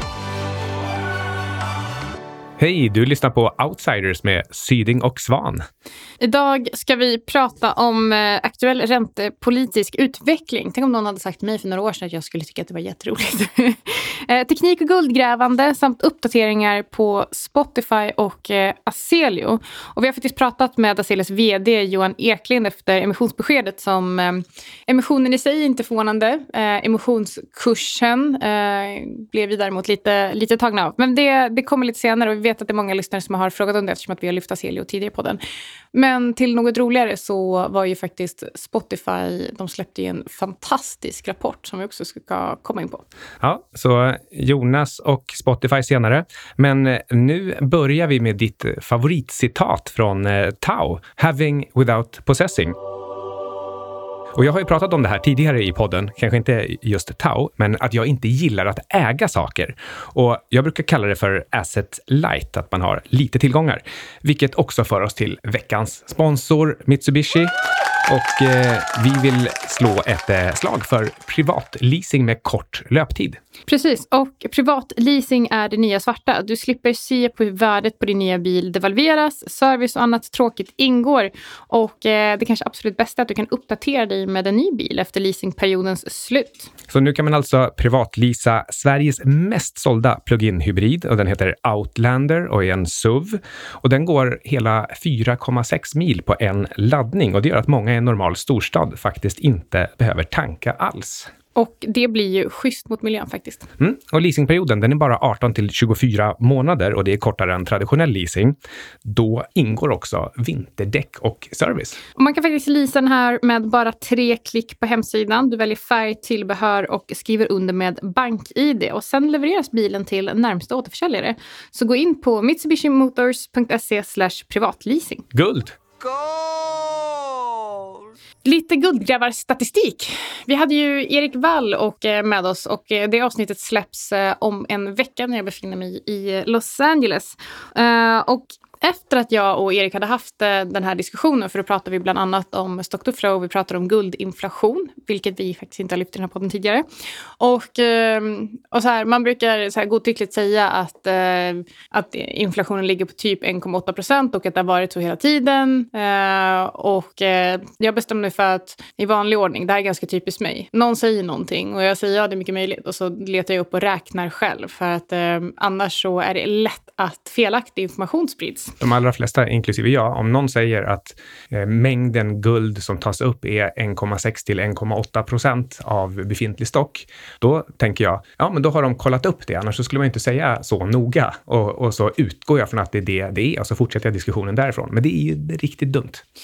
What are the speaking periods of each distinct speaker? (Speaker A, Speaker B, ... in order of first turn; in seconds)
Speaker A: 2.6-5.7, 43.4-52.8, 54.4-67.5, 68.0-73.4, 86.9-101.3, 103.8-112.0, 125.3-125.8, 168.8-186.2
Speaker B: 6.2-35.4, 35.9-43.0, 73.7-86.7, 101.6-103.7, 112.2-125.2, 128.4-146.8, 147.4-168.8